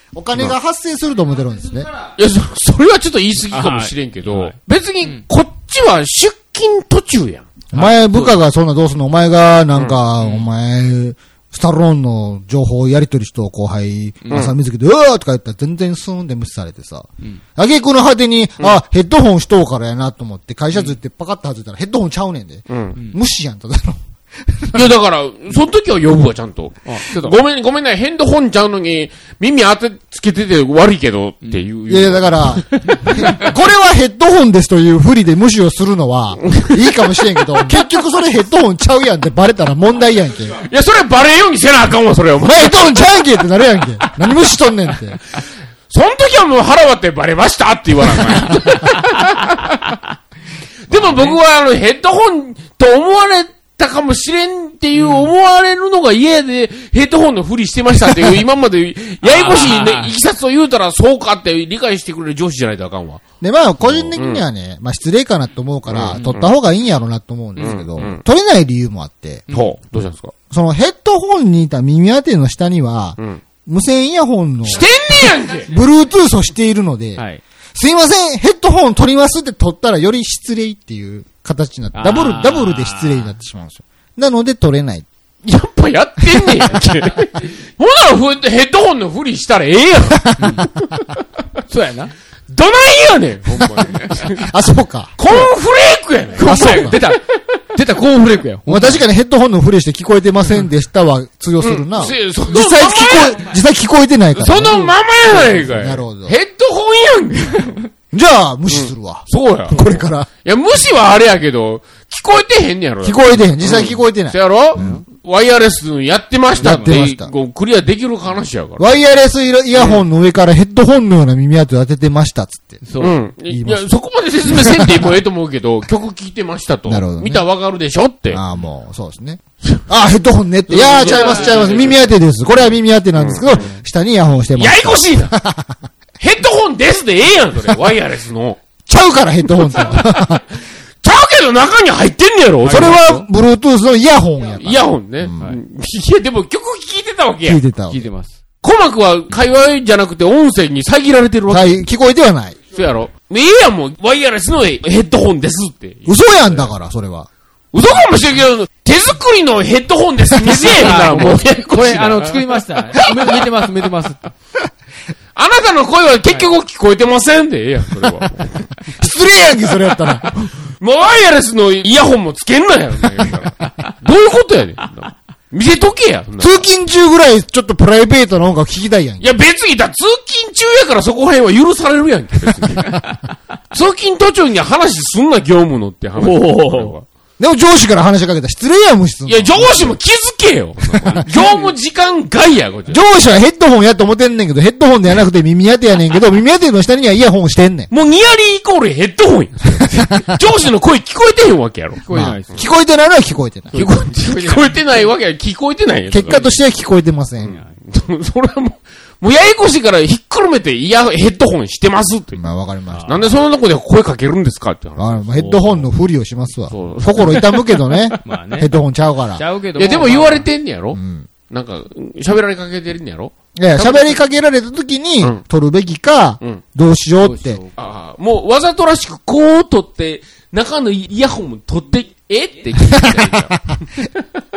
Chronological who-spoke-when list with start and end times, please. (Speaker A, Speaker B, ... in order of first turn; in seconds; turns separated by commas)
Speaker A: 0.1-1.9, Speaker B: 2.1-7.5, Speaker C: 3.5-5.2, Speaker A: 7.7-24.9, Speaker C: 7.7-8.4, Speaker C: 10.2-10.5, Speaker C: 14.2-14.5, Speaker B: 22.7-23.0, Speaker B: 24.7-32.6, Speaker C: 26.9-27.4, Speaker A: 31.9-40.6, Speaker C: 32.7-33.5, Speaker B: 40.5-43.1, Speaker A: 42.4-45.2, Speaker B: 45.9-49.8, Speaker B: 50.9-63.2, Speaker C: 50.9-51.4, Speaker C: 55.0-55.3, Speaker C: 59.2-60.1, Speaker A: 63.4-69.5, Speaker B: 63.8-64.5, Speaker B: 65.9-66.5, Speaker C: 66.1-66.5, Speaker B: 67.6-68.2, Speaker C: 69.5-69.8, Speaker B: 69.5-70.3, Speaker A: 70.5-77.2, Speaker B: 74.6-75.7, Speaker A: 77.7-85.1, Speaker C: 81.9-83.3, Speaker B: 85.5-91.2, Speaker A: 86.3-86.8, Speaker A: 90.2-90.6, Speaker C: 90.4-90.7, Speaker C: 91.7-92.1, Speaker B: 92.5-94.5, Speaker C: 93.9-94.2, Speaker A: 94.4-95.4, Speaker B: 95.2-97.2, Speaker C: 96.4-97.2, Speaker A: 96.4-97.0, Speaker C: 97.7-99.0, Speaker A: 98.7-106.4, Speaker B: 101.6-103.5, Speaker B: 104.3-107.8, Speaker A: 108.1-110.3, Speaker B: 108.7-119.0, Speaker A: 113.0-115.0, Speaker C: 114.8-115.0, Speaker A: 116.6-117.3, Speaker C: 116.6-117.0, Speaker A: 118.8-122.8, Speaker B: 119.7-120.0, Speaker C: 122.8-123.2, Speaker B: 123.0-128.4, Speaker A: 123.5-123.9, Speaker A: 124.5-125.1, Speaker A: 126.9-127.4, Speaker A: 128.3-135.8, Speaker B: 130.7-132.0, Speaker C: 130.7-132.0, Speaker B: 133.2-133.6, Speaker C: 133.5-133.8, Speaker B: 134.5-135.4, Speaker B: 136.2-138.6, Speaker A: 138.9-140.4, Speaker B: 139.5-140.4, Speaker B: 141.0-143.0, Speaker C: 142.6-143.3, Speaker A: 142.7-145.5, Speaker B: 144.6-147.6, Speaker A: 147.4-148.1, Speaker C: 147.9-148.3, Speaker B: 148.6-151.8, Speaker A: 151.5-152.6, Speaker B: 152.7-156.7, Speaker A: 156.1-157.3, Speaker B: 157.7-162.7, Speaker C: 160.5-164.3, Speaker B: 165.3-168.7, Speaker A: 169.0-170.6, Speaker B: 170.8-176.7, Speaker A: 176.4-179.4, Speaker B: 179.2-183.0, Speaker B: 183.7-187.1, Speaker C: 186.2-186.9, Speaker A: 187.4-190.0, Speaker B: 189.3-193.0, Speaker A: 190.9-191.2, Speaker C: 191.3-191.6, Speaker A: 192.9-197.9, Speaker B: 197.9-202.0, Speaker C: 202.0-202.6, Speaker A: 202.1-203.8, Speaker C: 203.7-205.1, Speaker B: 203.7-206.5, Speaker A: 206.1-207.6, Speaker B: 207.4-212.4, Speaker A: 212.4-213.2, Speaker C: 212.9-213.3, Speaker B: 213.1-215.2, Speaker A: 215.0-219.4, Speaker C: 215.3-215.9, Speaker B: 216.7-217.4, Speaker C: 218.2-218.7, Speaker C: 219.3-220.5, Speaker B: 219.8-224.2, Speaker A: 220.9-221.3, Speaker A: 223.6-227.6, Speaker C: 227.2-227.7, Speaker B: 227.8-234.1